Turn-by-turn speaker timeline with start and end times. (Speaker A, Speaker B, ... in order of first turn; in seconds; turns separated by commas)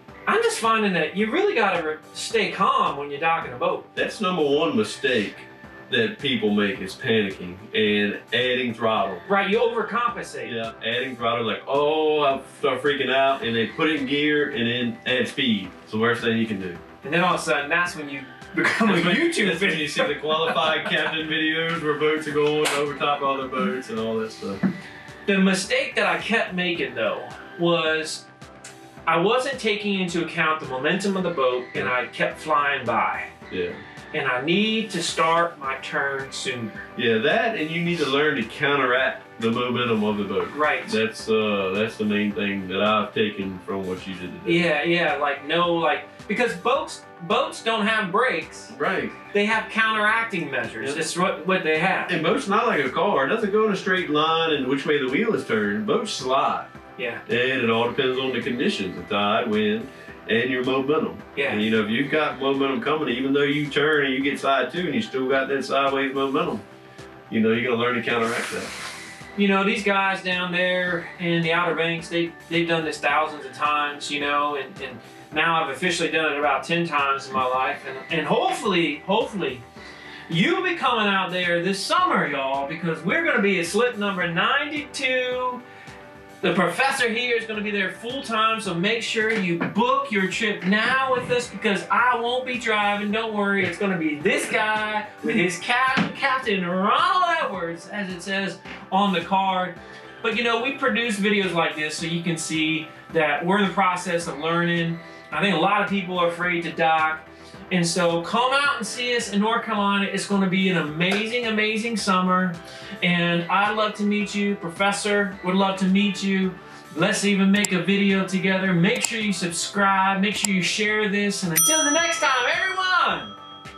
Speaker A: 0.3-3.9, Speaker B: 3.9-9.2, Speaker A: 9.2-10.6, Speaker B: 10.4-16.8, Speaker A: 17.0-20.9, Speaker B: 18.8-24.6, Speaker A: 25.2-28.3, Speaker A: 29.1-33.3, Speaker B: 33.5-33.8, Speaker A: 34.1-36.9, Speaker B: 36.9-44.7, Speaker A: 40.5-41.0, Speaker A: 44.4-48.7, Speaker B: 48.7-49.2, Speaker A: 49.3-52.2, Speaker B: 50.8-51.0, Speaker B: 52.1-56.7, Speaker A: 57.0-57.2, Speaker B: 57.2-66.6, Speaker A: 61.3-61.6, Speaker B: 67.3-68.7, Speaker A: 69.3-79.6, Speaker A: 80.3-85.6, Speaker A: 86.4-123.3